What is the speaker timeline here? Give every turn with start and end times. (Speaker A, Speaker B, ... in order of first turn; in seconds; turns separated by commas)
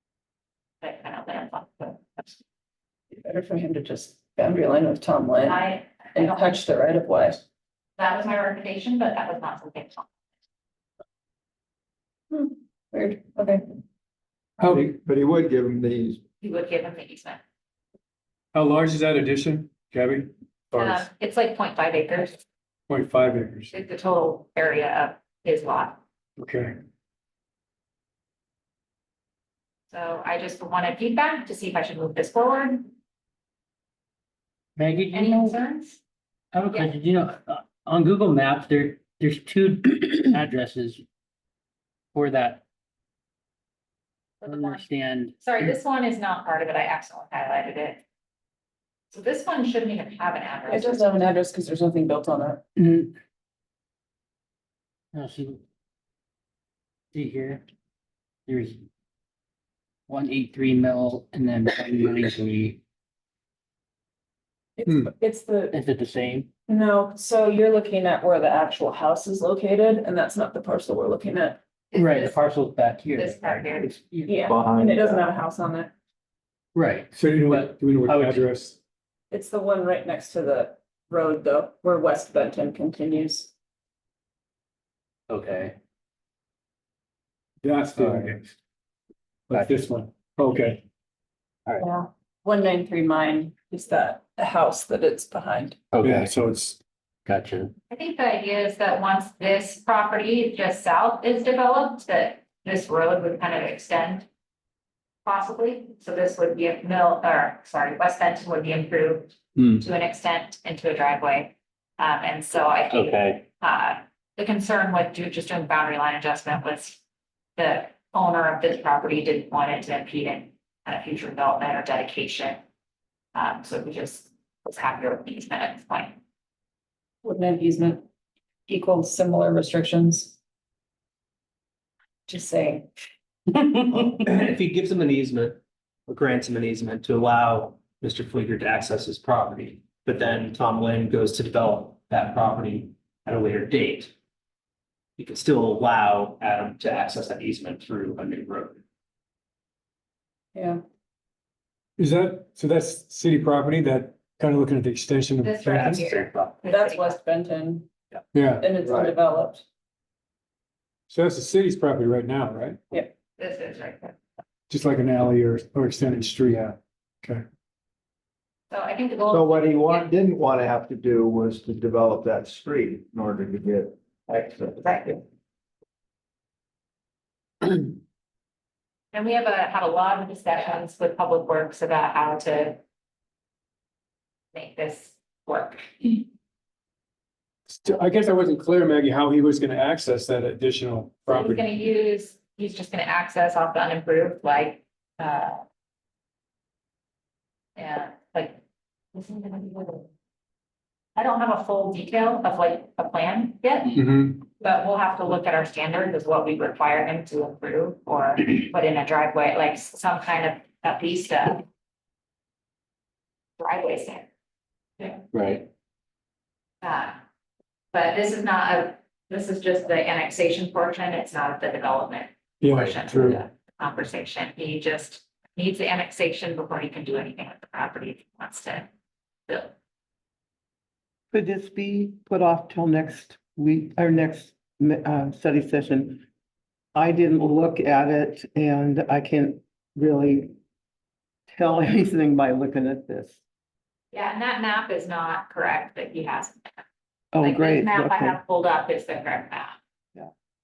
Speaker A: 0.8-2.4, Speaker B: 3.1-5.6, Speaker A: 5.5-6.5, Speaker B: 6.2-7.4, Speaker A: 8.0-10.1, Speaker B: 12.3-13.6, Speaker C: 14.6-14.9, Speaker D: 14.7-16.2, Speaker A: 16.4-17.4, Speaker C: 18.5-21.1, Speaker A: 20.8-22.4, Speaker C: 22.9-23.7, Speaker A: 23.7-26.0, Speaker C: 26.4-26.8, Speaker A: 29.9-32.9, Speaker E: 34.8-35.6, Speaker A: 35.1-36.0, Speaker E: 36.5-41.0, Speaker E: 42.1-42.6, Speaker A: 44.4-44.9, Speaker E: 44.5-45.4, Speaker A: 45.4-48.0, Speaker A: 49.1-51.2, Speaker B: 50.7-52.6, Speaker E: 52.8-53.1, Speaker E: 55.1-55.6, Speaker E: 57.1-57.6, Speaker E: 58.5-58.8, Speaker E: 60.1-62.8, Speaker B: 64.8-65.8, Speaker E: 65.7-66.5, Speaker B: 66.7-71.6, Speaker A: 71.9-72.4, Speaker E: 71.9-74.4, Speaker A: 73.2-74.0, Speaker B: 74.3-75.9, Speaker D: 74.5-75.2, Speaker E: 76.8-78.5, Speaker C: 77.1-78.8, Speaker B: 79.3-83.5, Speaker E: 85.3-85.8, Speaker C: 87.6-88.5, Speaker E: 88.0-88.3, Speaker C: 89.5-90.8, Speaker B: 91.8-95.8, Speaker E: 95.9-96.3, Speaker C: 96.0-96.8, Speaker E: 97.3-97.7, Speaker A: 97.9-104.3, Speaker A: 105.2-117.0, Speaker E: 109.6-109.8, Speaker E: 112.9-113.4, Speaker A: 117.6-122.6, Speaker A: 123.3-126.2, Speaker B: 127.2-128.0, Speaker B: 128.7-130.3, Speaker B: 132.3-132.9, Speaker E: 134.1-134.5, Speaker F: 134.5-135.6, Speaker F: 136.1-144.1, Speaker F: 145.2-148.8, Speaker B: 150.6-150.8, Speaker C: 152.0-156.1, Speaker A: 155.4-157.2, Speaker F: 156.1-156.5, Speaker B: 156.7-157.9, Speaker C: 158.3-158.7, Speaker B: 158.6-159.6, Speaker C: 161.1-162.8, Speaker A: 163.4-164.2, Speaker C: 164.7-167.4, Speaker A: 168.7-170.1, Speaker D: 169.3-175.2, Speaker A: 174.8-175.2, Speaker A: 179.1-182.8, Speaker A: 184.5-186.2, Speaker C: 187.7-191.7, Speaker A: 191.3-195.6, Speaker A: 197.8-198.6, Speaker A: 199.1-200.1, Speaker A: 201.2-204.0, Speaker C: 204.0-204.4, Speaker A: 204.6-211.6, Speaker A: 213.6-214.3, Speaker E: 215.3-215.7, Speaker A: 216.8-217.2, Speaker A: 217.9-228.9, Speaker C: 222.6-223.4, Speaker G: 231.3-236.2, Speaker G: 236.9-240.5, Speaker G: 241.5-243.4, Speaker A: 244.1-246.7, Speaker G: 247.3-248.4, Speaker A: 247.4-249.8